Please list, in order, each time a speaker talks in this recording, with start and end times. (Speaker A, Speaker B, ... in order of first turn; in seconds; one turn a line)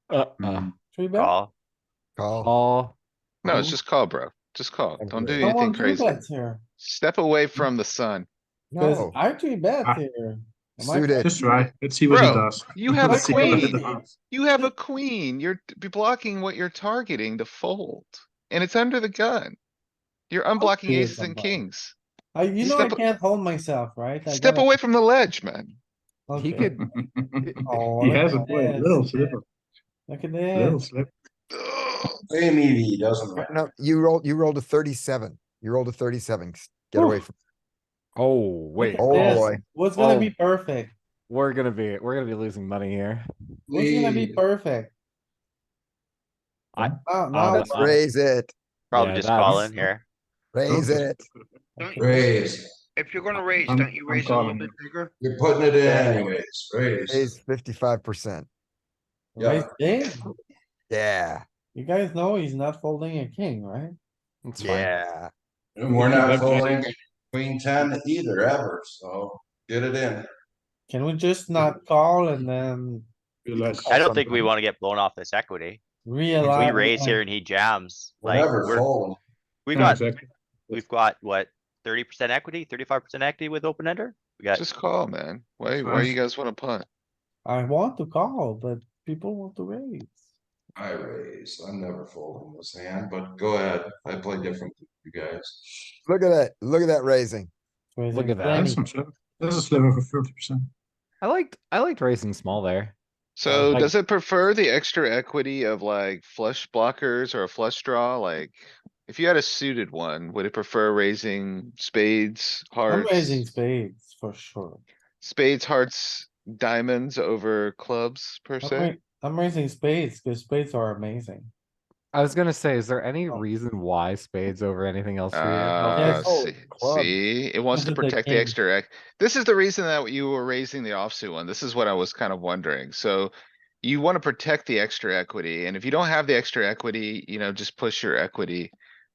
Speaker A: 0.1-0.7
Speaker B: 0.9-1.3
Speaker C: 1.1-1.5
Speaker D: 2.2-2.5
Speaker A: 2.4-3.0
Speaker E: 3.4-6.2
Speaker D: 5.1-5.4
Speaker B: 5.4-6.6
Speaker E: 6.8-8.3
Speaker D: 8.7-9.2
Speaker B: 8.7-11.6
Speaker D: 10.8-11.3
Speaker F: 11.2-14.2
Speaker E: 12.1-19.6
Speaker B: 13.0-14.0
Speaker E: 20.3-22.0
Speaker B: 20.6-21.6
Speaker B: 22.3-24.8
Speaker E: 22.6-23.0
Speaker E: 24.3-25.8
Speaker B: 26.3-26.7
Speaker A: 26.3-26.9
Speaker F: 26.8-29.4
Speaker A: 27.4-27.8
Speaker B: 27.6-29.4
Speaker B: 30.1-30.8
Speaker F: 30.5-31.1
Speaker E: 31.5-32.2
Speaker G: 32.3-33.5
Speaker D: 33.4-37.3
Speaker A: 38.2-40.4
Speaker B: 38.8-41.0
Speaker D: 39.0-39.6
Speaker A: 41.3-43.3
Speaker G: 43.7-44.4
Speaker B: 43.7-44.9
Speaker A: 46.7-48.0
Speaker B: 47.0-48.0
Speaker D: 47.5-48.5
Speaker A: 48.9-50.0
Speaker C: 48.9-50.0
Speaker D: 50.5-51.2
Speaker F: 50.7-51.1
Speaker B: 51.8-52.4
Speaker G: 52.0-52.7
Speaker H: 53.0-55.1
Speaker F: 53.6-54.8
Speaker G: 55.2-57.3
Speaker D: 55.8-56.3
Speaker D: 57.1-58.5
Speaker B: 59.4-60.3
Speaker G: 59.4-59.7
Speaker D: 60.9-61.4
Speaker B: 61.7-64.0
Speaker A: 64.5-65.0
Speaker D: 64.6-65.3
Speaker G: 65.8-70.3
Speaker F: 65.9-66.9
Speaker B: 70.9-73.1
Speaker F: 73.5-74.5
Speaker D: 73.8-74.4
Speaker C: 73.9-75.8
Speaker B: 76.0-77.2
Speaker F: 76.4-76.7
Speaker C: 76.5-78.9
Speaker G: 78.2-79.2
Speaker C: 79.7-80.1
Speaker F: 79.7-80.8
Speaker C: 80.7-84.7
Speaker E: 84.5-86.8
Speaker F: 85.7-86.2
Speaker B: 87.5-90.2
Speaker G: 90.8-95.9
Speaker D: 96.1-97.5
Speaker B: 97.9-98.8
Speaker A: 98.1-98.7
Speaker F: 98.5-100.7
Speaker A: 101.2-103.0
Speaker E: 103.4-113.5
Speaker A: 103.5-103.9
Speaker B: 112.9-114.8
Speaker E: 115.2-118.9
Speaker B: 118.6-121.5
Speaker A: 122.1-126.3
Speaker E: 125.3-138.7
Speaker B: 125.9-126.3
Speaker D: 126.0-127.2
Speaker B: 127.7-128.6